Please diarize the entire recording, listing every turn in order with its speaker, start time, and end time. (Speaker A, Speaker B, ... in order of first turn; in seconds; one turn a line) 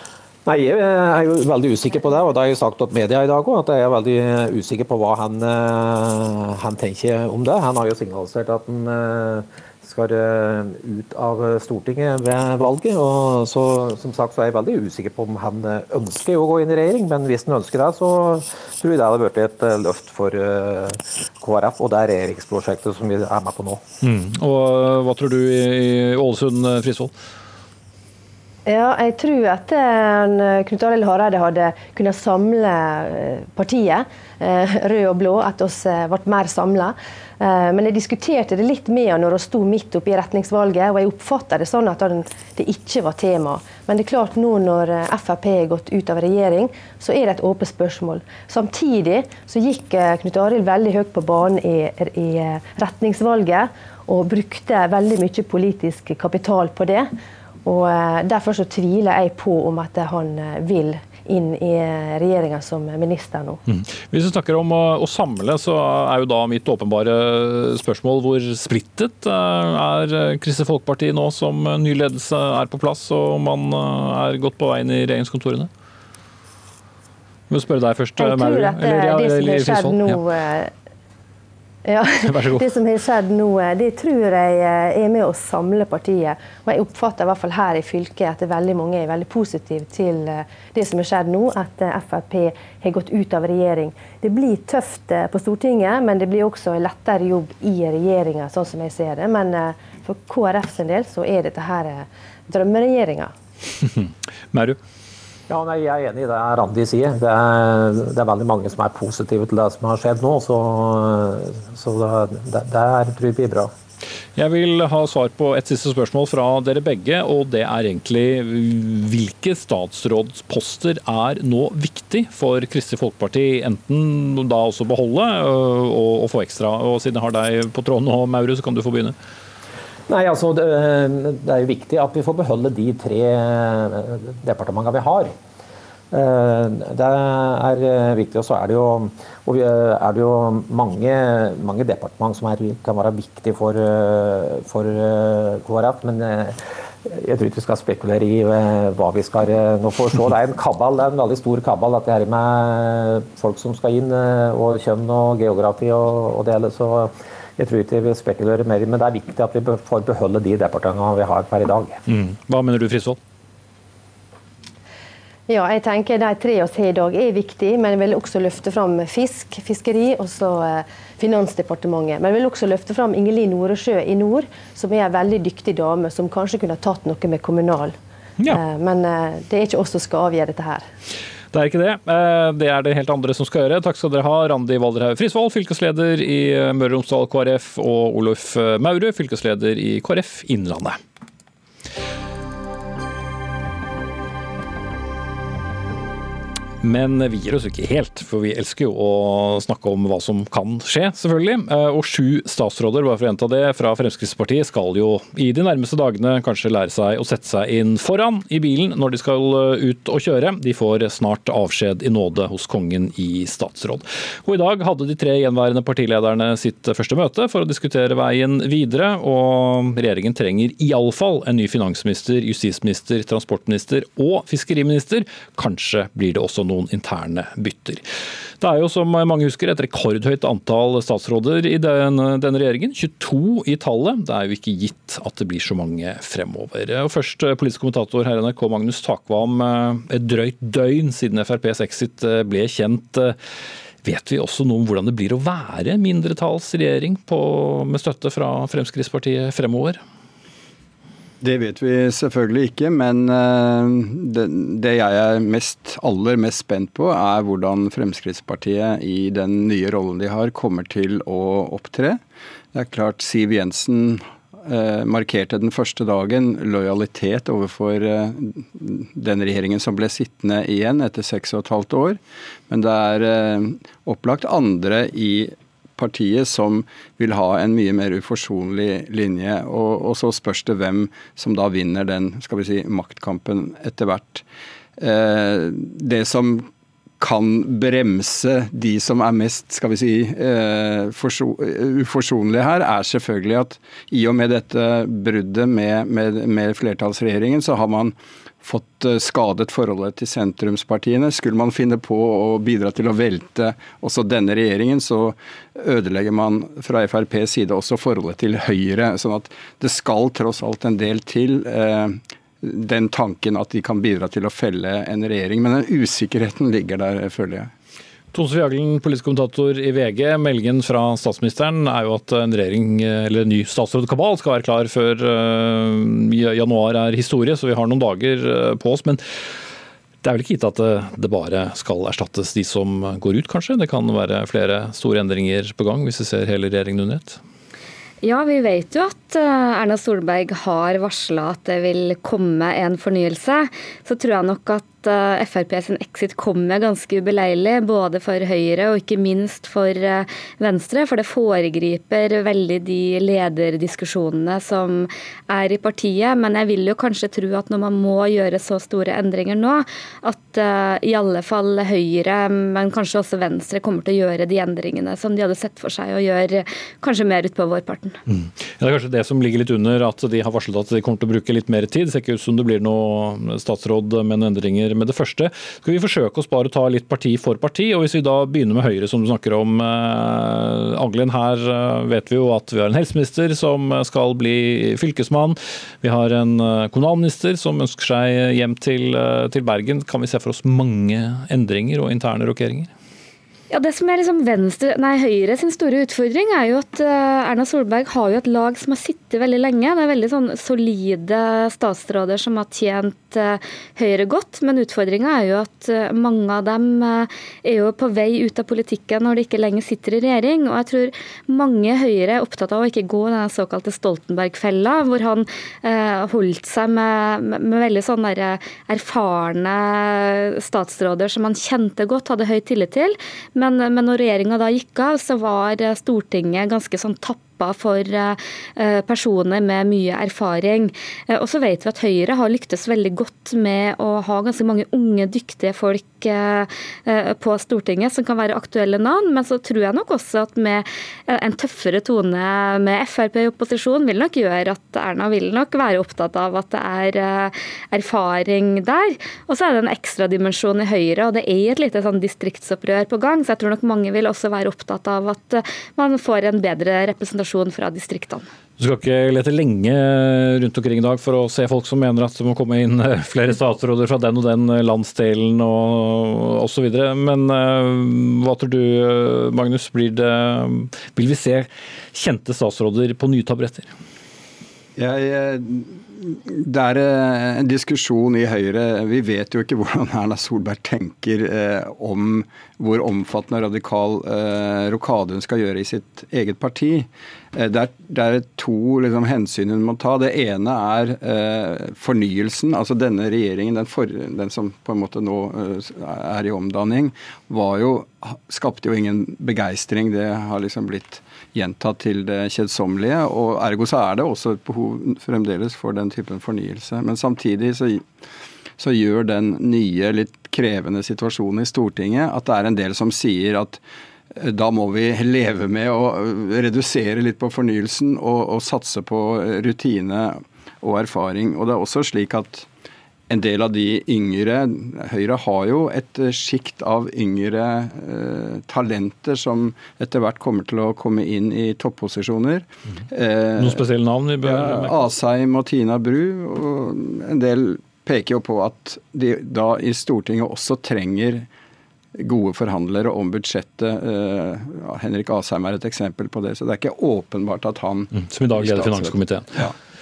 Speaker A: 0.5-23.9
Speaker B: 24.0-27.1
Speaker C: 28.7-57.1
Speaker C: 57.6-63.6
Speaker B: 63.7-75.7
Speaker B: 77.5-80.2
Speaker C: 78.2-80.7
Speaker C: 81.8-103.3
Speaker B: 82.2-82.7
Speaker B: 103.8-104.8
Speaker A: 105.5-113.7
Speaker B: 114.4-129.2
Speaker A: 130.1-135.3
Speaker A: 136.1-162.0
Speaker B: 162.1-163.2
Speaker C: 165.5-178.0
Speaker C: 178.5-180.9
Speaker B: 181.5-191.0
Speaker B: 196.8-228.1
Speaker B: 228.6-243.4
Speaker B: 244.0-250.0
Speaker D: 251.4-262.2
Speaker D: 262.7-284.4
Speaker D: 285.0-286.7
Speaker D: 287.2-317.7
Speaker B: 318.3-329.2
Speaker B: 330.2-337.4
Speaker E: 338.2-368.2
Speaker B: 368.3-392.9
Speaker E: 393.7-458.5
Speaker B: 458.8-473.9
Speaker D: 475.0-508.1
Speaker D: 508.8-513.8
Speaker D: 514.4-522.7
Speaker D: 523.3-533.8
Speaker B: 533.6-535.0
Speaker D: 534.4-541.5
Speaker D: 542.2-549.7
Speaker B: 548.1-549.6